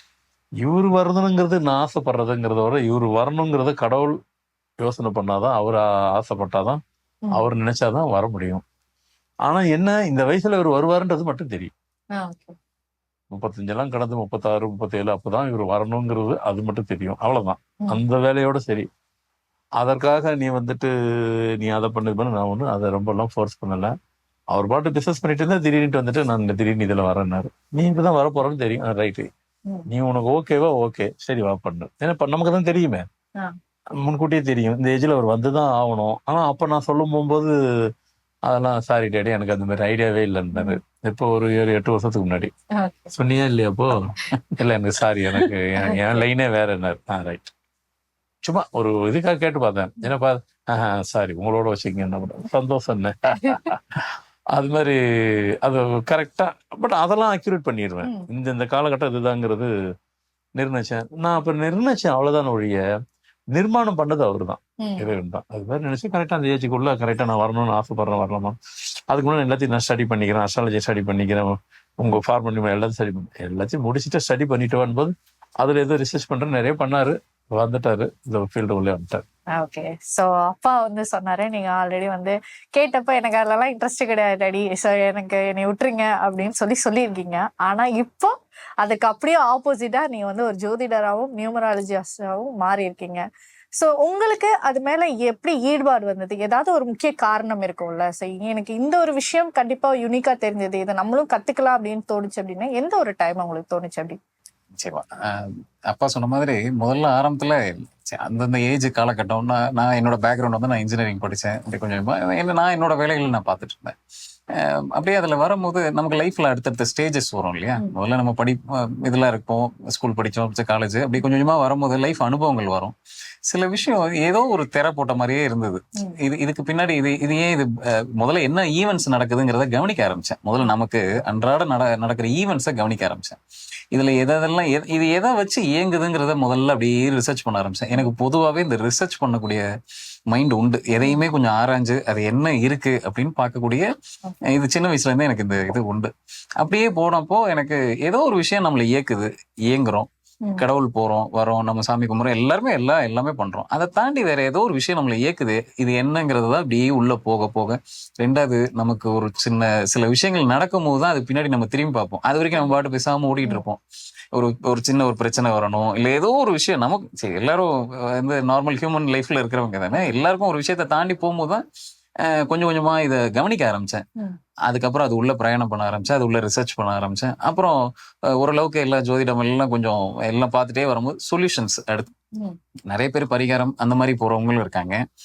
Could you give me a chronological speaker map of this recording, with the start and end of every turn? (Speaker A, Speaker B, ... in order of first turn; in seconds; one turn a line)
Speaker A: 0.6-4.2
Speaker A: 4.8-6.8
Speaker A: 7.3-8.6
Speaker A: 9.4-11.7
Speaker B: 12.2-12.6
Speaker A: 13.3-18.9
Speaker A: 19.8-23.9
Speaker A: 24.5-29.3
Speaker A: 29.9-33.0
Speaker A: 34.0-37.9
Speaker A: 38.5-42.5
Speaker B: 40.5-40.8
Speaker B: 42.8-43.1
Speaker A: 43.1-47.5
Speaker B: 45.8-46.2
Speaker A: 48.4-59.7
Speaker A: 60.6-62.8
Speaker A: 63.5-68.6
Speaker B: 64.8-65.1
Speaker A: 69.1-79.2
Speaker B: 79.5-93.2
Speaker B: 93.8-104.2
Speaker C: 104.8-113.9
Speaker C: 114.5-122.9
Speaker C: 123.5-133.4
Speaker C: 133.9-139.6
Speaker C: 140.3-143.9
Speaker C: 144.5-163.8
Speaker C: 164.3-171.6
Speaker C: 172.2-174.0
Speaker C: 174.7-177.8
Speaker C: 178.3-182.1
Speaker C: 182.9-185.0